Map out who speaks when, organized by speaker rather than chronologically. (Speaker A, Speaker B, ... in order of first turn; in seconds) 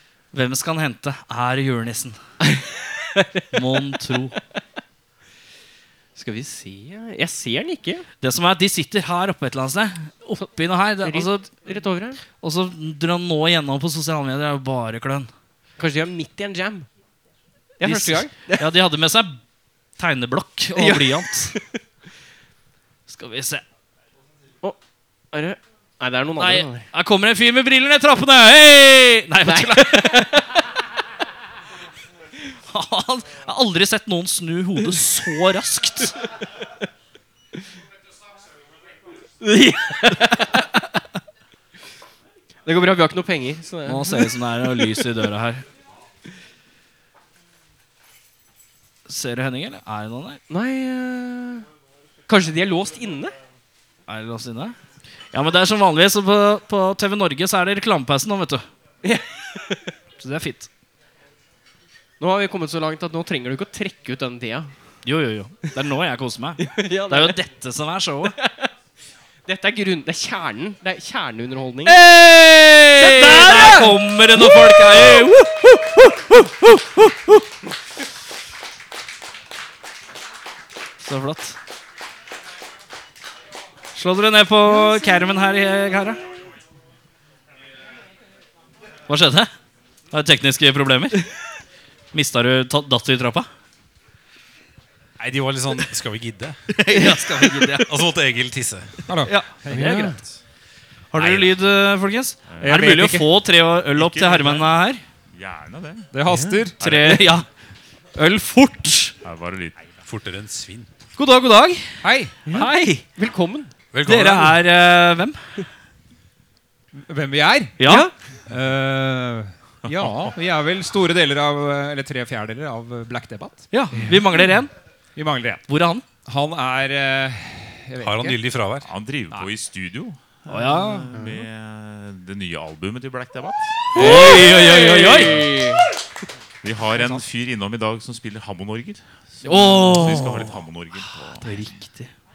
Speaker A: 0.3-2.2, 3.5-4.4, 8.2-11.6, 12.4-15.3, 17.8-19.4, 20.0-21.6, 23.1-23.6, 26.4-30.4, 32.7-36.1, 43.9-45.6, 49.1-50.4, 54.1-54.8, 55.3-58.6, 60.2-60.7, 65.0-68.3, 71.8-77.4, 81.0-81.6, 83.9-86.2, 89.1-89.5, 90.1-91.3, 92.1-93.5, 96.7-98.0, 99.2-100.1, 101.1-105.0, 106.8-107.5, 108.1-109.1, 111.2-113.0, 114.0-115.7, 117.8-118.1, 123.7-124.7, 125.7-126.0, 130.5-131.1, 133.9-135.5, 139.4-142.1
Speaker B: 2.4-3.4, 6.2-8.1, 11.0-12.2, 15.8-16.9, 17.8-18.7, 20.7-21.6, 25.3-26.9, 29.4-30.4, 39.4-40.8, 42.6-44.3, 50.5-51.6, 52.3-53.3, 59.0-59.9, 62.2-64.7, 66.6-67.4, 68.4-68.7, 69.5-72.0, 73.0-75.0, 99.7-100.2, 106.3-106.6, 112.5-113.7, 117.8-118.1, 133.9-135.8
Speaker C: 95.2-99.0, 101.2-101.5, 110.0-110.9, 113.9-114.6, 128.0-128.9
Speaker D: 99.1-100.2, 102.6-103.3, 106.1-106.8, 112.0-112.5, 117.0-124.2, 125.2-125.6, 126.2-128.4
Speaker E: 102.5-102.8, 104.0-104.6, 105.3-106.1, 106.8-107.3, 109.2-109.8, 119.8-120.3, 128.8-133.9, 136.6-141.7